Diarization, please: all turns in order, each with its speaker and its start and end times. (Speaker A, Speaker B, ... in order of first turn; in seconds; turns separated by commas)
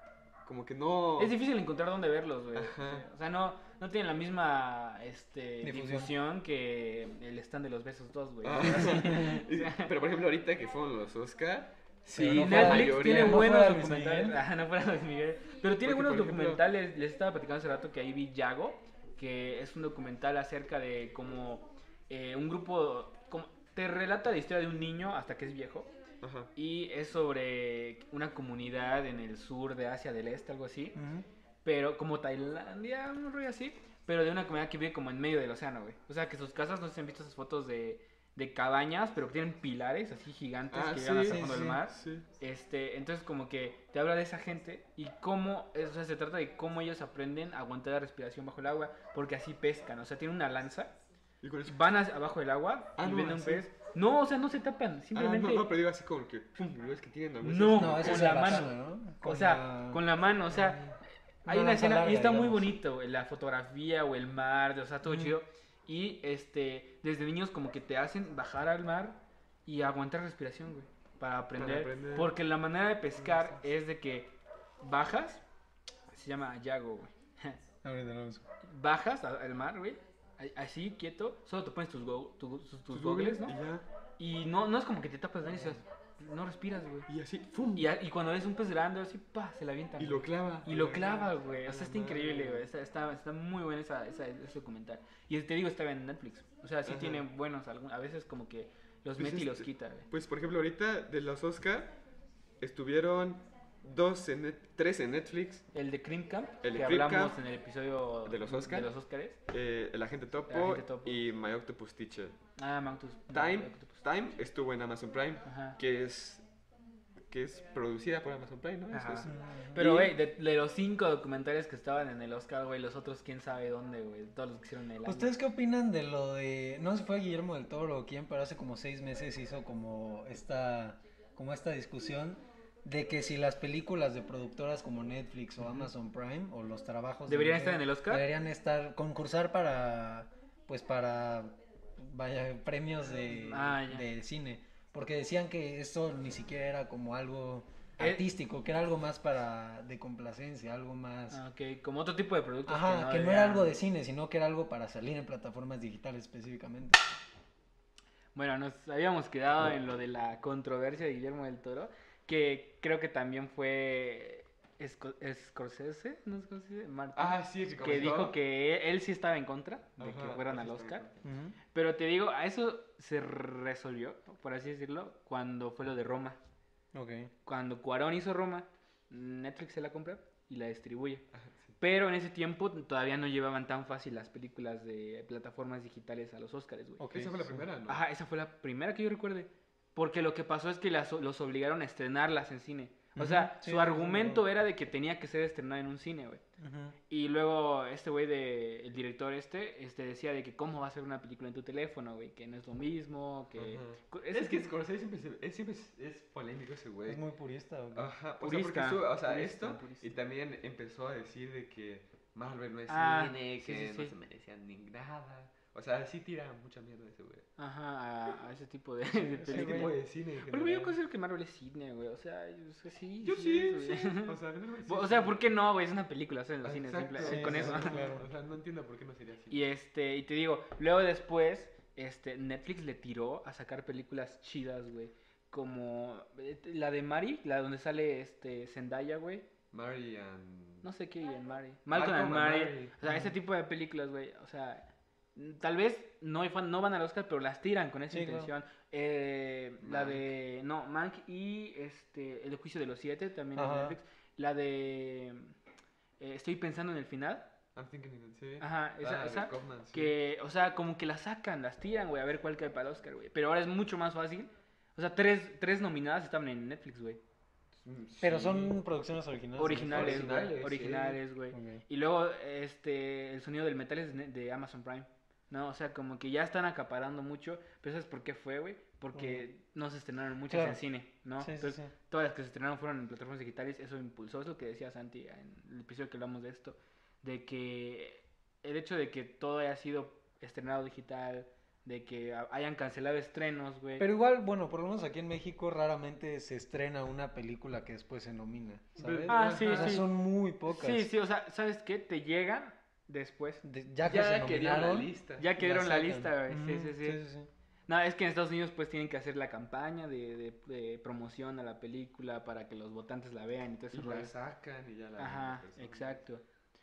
Speaker A: 0.4-1.4, Speaker B: 1.2-9.9, Speaker A: 2.5-3.0, Speaker C: 5.6-6.1, Speaker A: 8.4-13.5, Speaker C: 8.8-9.2, Speaker C: 12.1-14.4, Speaker B: 12.1-25.9, Speaker A: 15.8-16.6, Speaker A: 26.2-26.5, Speaker B: 26.5-31.0, Speaker C: 30.9-31.2, Speaker B: 31.6-50.9, Speaker A: 40.7-42.3, Speaker C: 41.2-41.8, Speaker A: 51.4-52.0, Speaker B: 51.6-55.7, Speaker A: 53.0-53.6, Speaker A: 55.1-58.5, Speaker B: 57.4-60.8, Speaker C: 57.7-60.9, Speaker B: 61.4-75.4, Speaker C: 61.5-62.8, Speaker C: 65.0-65.3, Speaker A: 71.5-72.3, Speaker A: 73.2-73.6, Speaker B: 76.1-77.6, Speaker C: 77.8-78.4, Speaker B: 78.6-83.6, Speaker A: 82.9-83.8, Speaker B: 84.2-87.1, Speaker A: 87.1-87.9, Speaker B: 87.7-100.1, Speaker A: 90.0-92.7, Speaker A: 96.8-97.2, Speaker A: 99.2-101.9, Speaker A: 102.6-105.7, Speaker B: 105.7-109.4, Speaker A: 106.6-107.4, Speaker A: 108.2-108.9, Speaker A: 109.5-112.4, Speaker B: 110.5-111.2, Speaker B: 112.5-113.9, Speaker A: 113.3-116.4, Speaker B: 115.4-115.8, Speaker A: 117.3-120.1, Speaker B: 118.9-125.3, Speaker C: 119.2-119.8, Speaker C: 125.0-151.4, Speaker B: 137.3-138.3, Speaker B: 143.4-144.1, Speaker B: 148.0-148.2, Speaker B: 151.3-153.7, Speaker C: 152.7-157.0, Speaker B: 158.3-171.0, Speaker A: 167.1-168.4, Speaker A: 170.0-171.2, Speaker C: 171.2-171.6, Speaker B: 171.7-176.4, Speaker C: 176.9-177.3, Speaker B: 177.4-181.2, Speaker A: 181.3-181.7, Speaker B: 181.8-187.1, Speaker C: 187.0-187.6, Speaker A: 187.1-188.0, Speaker B: 187.9-196.4, Speaker C: 193.2-194.4, Speaker C: 196.6-197.0, Speaker B: 197.1-204.7, Speaker A: 203.6-207.2, Speaker C: 207.1-208.1, Speaker A: 207.9-217.5, Speaker B: 208.4-210.1, Speaker B: 212.9-214.1, Speaker B: 217.6-228.1, Speaker C: 219.2-219.9, Speaker A: 219.4-220.9, Speaker A: 223.2-225.5, Speaker A: 226.6-229.6, Speaker C: 227.2-228.3, Speaker B: 229.5-239.4, Speaker A: 239.7-240.9, Speaker B: 240.8-255.5, Speaker A: 241.9-242.9, Speaker C: 243.0-243.3, Speaker C: 248.1-248.5, Speaker A: 249.8-250.3, Speaker C: 253.5-254.0, Speaker B: 256.2-257.5, Speaker A: 257.7-260.1, Speaker B: 258.6-267.2, Speaker A: 267.8-268.8, Speaker C: 268.2-270.4, Speaker B: 269.6-294.1, Speaker A: 269.8-271.2, Speaker C: 271.5-271.8, Speaker C: 279.1-279.4, Speaker C: 280.5-280.8, Speaker C: 281.4-281.9, Speaker C: 294.0-301.1, Speaker A: 299.0-300.0, Speaker B: 299.3-300.1, Speaker B: 300.7-303.6, Speaker C: 303.6-307.5, Speaker A: 304.0-305.5, Speaker B: 305.4-307.2, Speaker B: 307.9-314.3, Speaker A: 313.9-316.2, Speaker B: 315.2-316.4